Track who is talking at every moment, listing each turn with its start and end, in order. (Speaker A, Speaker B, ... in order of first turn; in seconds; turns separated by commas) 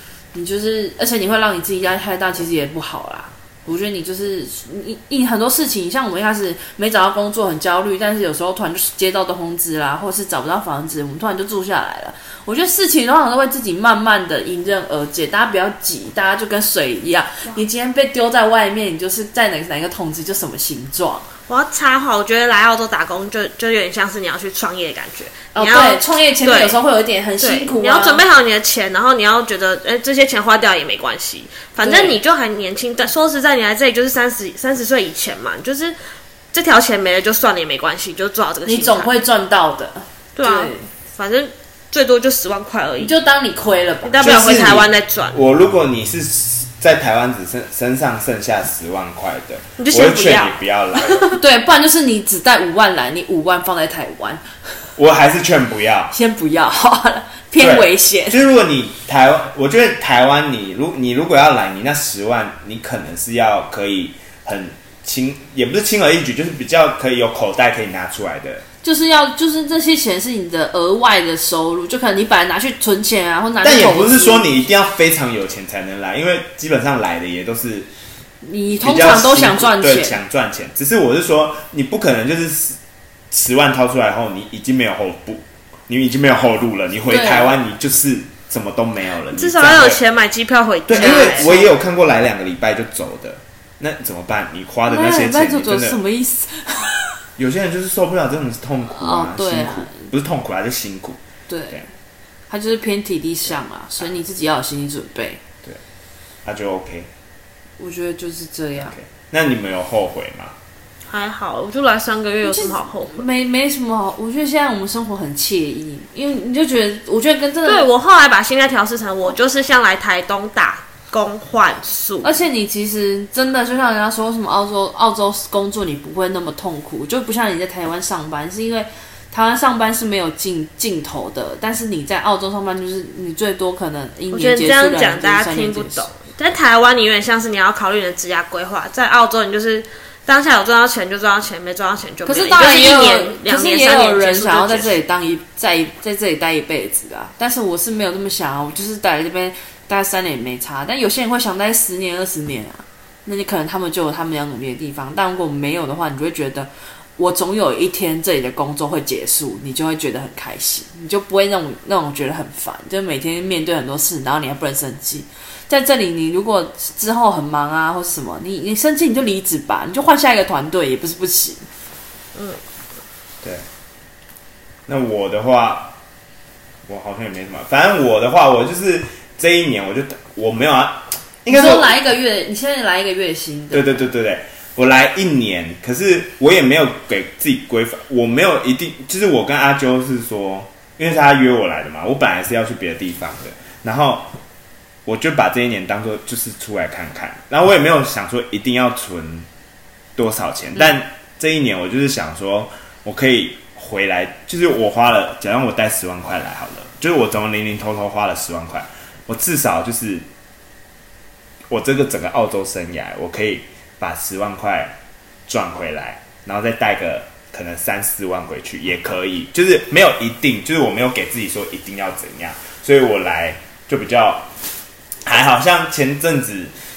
Speaker A: 0.3-21.3, Speaker B: 21.5-26.8, Speaker A: 25.5-28.2, Speaker B: 27.4-36.0, Speaker A: 31.8-32.2, Speaker B: 36.5-39.1, Speaker A: 38.6-40.9, Speaker B: 40.4-43.1, Speaker A: 43.0-44.7, Speaker B: 44.0-45.4, Speaker C: 44.2-51.3, Speaker B: 49.8-51.2, Speaker A: 51.3-54.8, Speaker C: 55.0-56.1, Speaker A: 56.1-58.4, Speaker C: 57.6-68.6, Speaker A: 68.8-74.5, Speaker C: 73.6-77.9, Speaker A: 78.4-80.2, Speaker C: 78.8-82.8, Speaker C: 83.3-90.0, Speaker A: 87.1-87.5, Speaker B: 89.3-91.5, Speaker C: 90.9-96.0, Speaker A: 90.9-91.7, Speaker A: 94.9-97.2, Speaker C: 97.4-101.2, Speaker A: 98.9-100.1, Speaker A: 101.5-101.9, Speaker A: 102.5-105.4, Speaker C: 106.4-107.1, Speaker A: 107.8-108.9, Speaker C: 108.9-110.5, Speaker B: 111.1-113.2, Speaker A: 112.4-117.9, Speaker B: 117.6-122.3, Speaker A: 122.2-136.1, Speaker B: 134.3-144.9, Speaker A: 142.2-171.7, Speaker B: 172.3-172.6, Speaker C: 174.9-175.9, Speaker C: 176.9-182.0, Speaker A: 181.5-184.1, Speaker C: 183.7-194.3, Speaker C: 195.1-199.5, Speaker C: 200.2-210.2, Speaker C: 211.7-214.9, Speaker C: 215.5-224.5, Speaker C: 225.2-226.7